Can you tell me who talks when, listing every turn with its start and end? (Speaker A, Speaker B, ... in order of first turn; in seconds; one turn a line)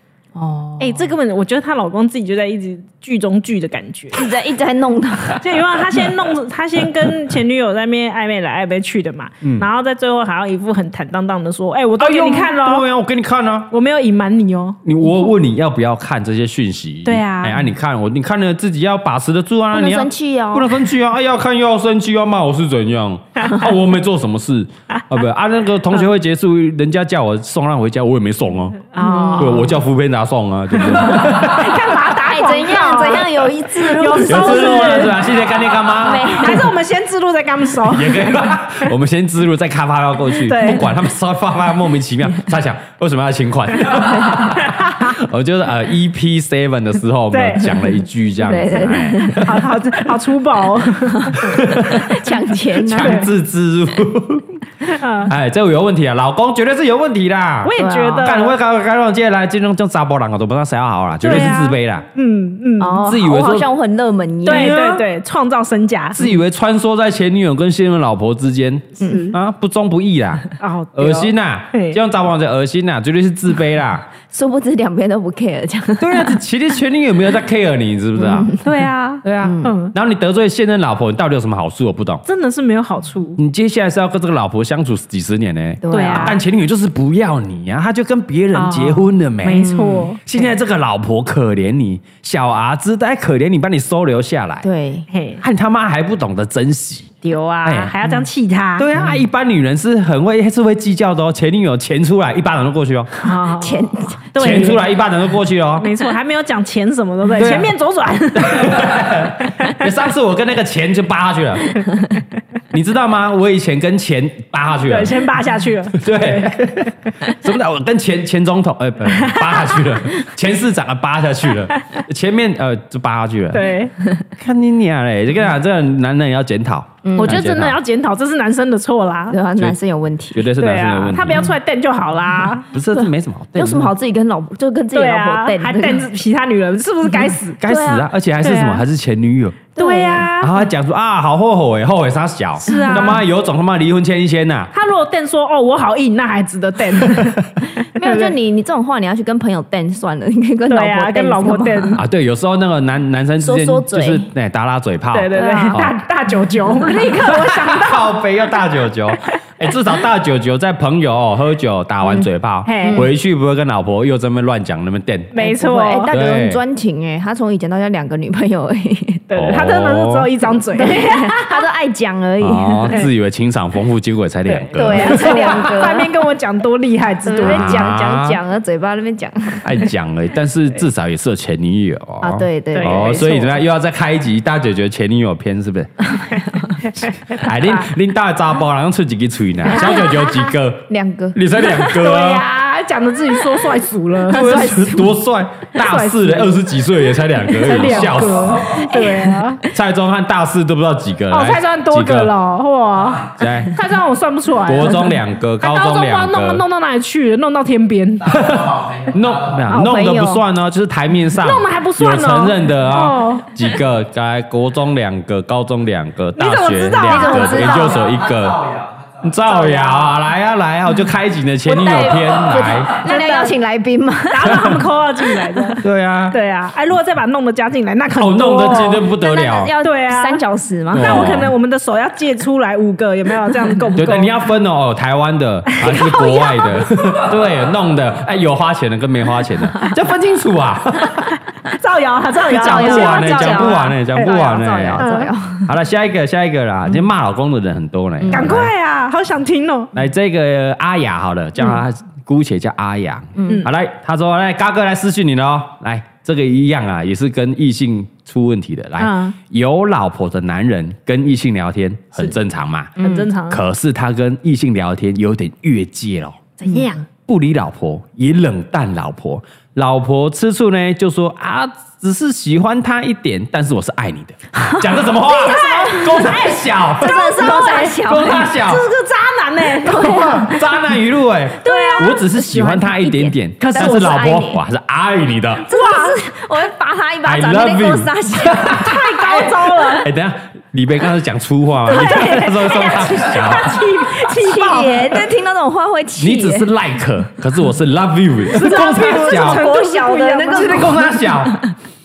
Speaker A: 0.3-1.1
Speaker B: 0.8-4.2
Speaker A: 4.1-5.6
Speaker B: 5.4-12.8
Speaker C: 9.4-9.7
Speaker C: 12.0-13.7
Speaker B: 13.7-14.8
Speaker C: 14.8-28.9
Speaker B: 17.0-17.7
Speaker A: 19.7-20.8
Speaker B: 28.9-29.7
Speaker A: 29.0-29.8
Speaker C: 29.4-32.0
Speaker B: 30.8-35.3
Speaker A: 31.9-35.2
Speaker C: 34.2-36.5
Speaker A: 36.0-36.7
Speaker B: 36.4-38.5
Speaker C: 37.8-49.8
Speaker B: 40.4-40.9
Speaker B: 47.3-48.0
Speaker A: 48.4-49.5
Speaker B: 49.3-51.5
Speaker A: 51.1-53.3
Speaker C: 51.3-54.6
Speaker B: 53.0-53.3
Speaker B: 54.9-55.3
Speaker C: 55.3-62.0
Speaker B: 57.6-58.5
Speaker A: 57.8-58.3
Speaker B: 61.2-63.0
Speaker A: 62.8-64.8
Speaker C: 63.0-63.7
Speaker B: 64.4-66.2
Speaker C: 64.5-65.0
Speaker C: 66.1-74.1
Speaker A: 69.0-69.3
Speaker B: 69.0-69.3
Speaker B: 70.6-72.0
Speaker A: 74.3-76.4
Speaker C: 76.0-78.5
Speaker A: 78.2-78.8
Speaker B: 78.6-79.9
Speaker C: 79.2-82.2
Speaker A: 79.4-79.8
Speaker B: 82.2-83.4
Speaker C: 83.4-94.7
Speaker A: 85.8-86.4
Speaker B: 85.9-86.4
Speaker B: 88.5-90.5
Speaker A: 89.5-90.1
Speaker A: 94.6-95.1
Speaker B: 95.1-95.4
Speaker C: 95.4-98.0
Speaker B: 97.2-98.9
Speaker C: 98.8-103.1
Speaker B: 103.2-104.8
Speaker A: 103.6-104.6
Speaker C: 104.4-106.0
Speaker B: 105.8-108.9
Speaker C: 107.4-107.7
Speaker C: 108.3-111.8
Speaker B: 109.5-109.8
Speaker C: 112.7-115.2
Speaker B: 114.8-116.6
Speaker C: 115.9-123.7
Speaker B: 119.1-119.8
Speaker B: 123.5-123.9
Speaker C: 124.4-127.8
Speaker A: 127.0-127.4
Speaker B: 127.2-129.4
Speaker A: 129.3-130.5
Speaker C: 130.3-131.5
Speaker B: 130.6-132.7
Speaker C: 132.7-133.9
Speaker A: 132.9-136.1
Speaker B: 134.9-137.6
Speaker A: 137.2-138.1
Speaker C: 137.6-139.6
Speaker B: 138.4-138.8
Speaker A: 139.8-140.3
Speaker B: 139.8-140.6
Speaker C: 140.4-144.7
Speaker B: 142.6-143.2
Speaker A: 142.7-143.1
Speaker B: 144.7-148.3
Speaker A: 147.7-152.0
Speaker B: 150.7-152.0
Speaker C: 152.0-155.9
Speaker A: 153.4-154.3
Speaker B: 155.1-158.2
Speaker A: 155.3-155.8
Speaker A: 156.8-157.4
Speaker C: 157.2-165.3
Speaker B: 162.7-163.1
Speaker A: 162.8-163.1
Speaker B: 165.3-166.1
Speaker A: 165.3-169.5
Speaker C: 166.1-166.6
Speaker B: 169.3-171.6
Speaker C: 169.3-170.3
Speaker A: 170.7-173.0
Speaker C: 172.4-175.6
Speaker B: 174.5-177.9
Speaker A: 174.7-176.1
Speaker A: 177.2-179.9
Speaker C: 177.4-178.4
Speaker C: 179.6-185.9
Speaker A: 182.2-183.5
Speaker B: 182.7-183.5
Speaker A: 186.1-186.7
Speaker B: 186.3-187.8
Speaker C: 187.3-192.5
Speaker A: 189.7-191.8
Speaker B: 189.8-190.1
Speaker B: 191.7-194.8
Speaker C: 194.3-198.8
Speaker A: 194.3-195.1
Speaker B: 195.7-196.7
Speaker B: 197.5-199.6
Speaker A: 198.6-199.7
Speaker C: 199.6-202.3
Speaker B: 201.3-208.4
Speaker C: 203.3-203.8
Speaker C: 204.6-206.6
Speaker C: 208.3-222.9
Speaker A: 209.7-210.4
Speaker B: 211.3-213.5
Speaker B: 216.3-218.0
Speaker A: 217.0-218.1
Speaker B: 219.5-220.2
Speaker A: 221.7-224.8
Speaker B: 223.0-223.6
Speaker B: 224.3-229.1
Speaker C: 224.5-224.8
Speaker A: 225.4-225.8
Speaker C: 225.8-226.4
Speaker C: 228.2-229.7
Speaker A: 229.0-231.3
Speaker B: 229.8-230.4
Speaker C: 230.9-231.5
Speaker B: 230.9-234.4
Speaker C: 234.0-241.4
Speaker B: 235.7-236.6
Speaker A: 236.0-236.4
Speaker B: 241.6-243.9
Speaker A: 242.5-245.7
Speaker C: 242.5-245.1
Speaker B: 245.0-245.3
Speaker C: 245.7-248.7
Speaker A: 248.2-248.6
Speaker B: 248.3-249.9
Speaker C: 249.9-266.5
Speaker A: 253.3-253.7
Speaker B: 259.0-259.4
Speaker B: 263.0-263.6
Speaker A: 263.0-263.3
Speaker B: 266.6-267.1
Speaker C: 267.2-277.5
Speaker A: 274.5-278.5
Speaker B: 275.4-280.3
Speaker C: 278.0-278.9
Speaker A: 279.8-280.7
Speaker C: 279.8-285.7
Speaker A: 281.6-284.6
Speaker B: 281.6-282.2
Speaker B: 283.6-284.1
Speaker A: 285.6-289.1
Speaker B: 285.7-286.2
Speaker C: 287.2-293.9
Speaker B: 288.7-290.1
Speaker B: 291.9-295.3
Speaker A: 294.0-296.7
Speaker C: 296.2-299.7
Speaker B: 298.5-301.1
Speaker A: 298.5-301.7
Speaker C: 300.5-301.6